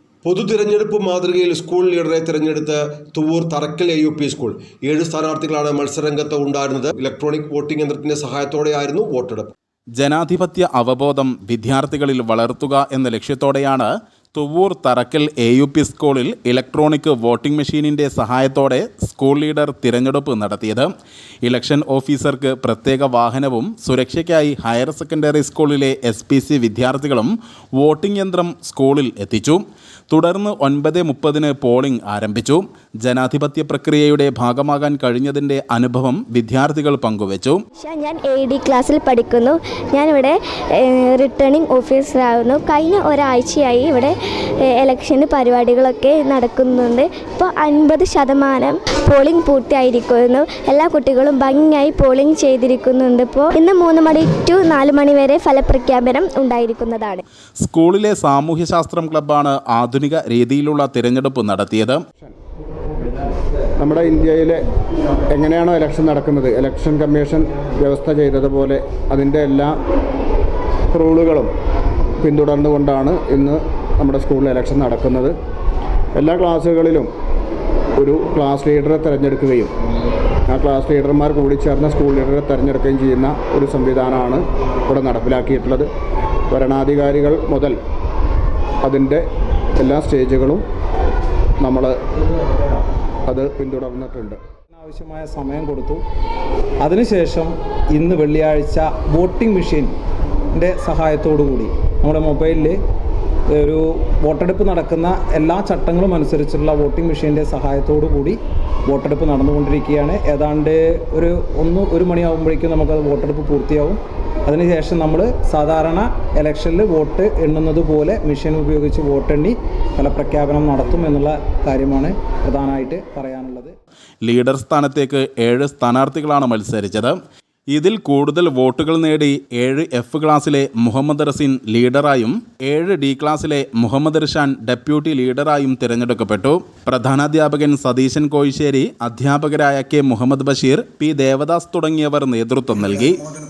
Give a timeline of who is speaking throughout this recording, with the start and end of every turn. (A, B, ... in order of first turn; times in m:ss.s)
0:00.2-0:09.5 A
0:09.9-0:20.9 B
0:21.4-0:37.6 B
0:37.8-0:44.1 C
0:44.7-0:57.2 C
0:57.6-1:02.0 B
1:03.8-1:04.6 D
1:05.3-1:09.7 D
1:10.9-1:11.5 D
1:12.2-1:15.3 D
1:16.2-1:17.1 D
1:18.0-1:19.7 D
1:20.5-1:25.9 D
1:26.5-1:27.8 D
1:28.8-1:29.2 D
1:29.8-1:30.6 D
1:31.6-1:32.0 D
1:33.3-1:34.4 D
1:34.7-1:36.0 E
1:36.8-1:39.9 E
1:40.5-1:42.8 E
1:43.5-2:03.7 E
2:04.2-2:07.2 B
2:07.7-2:23.3 B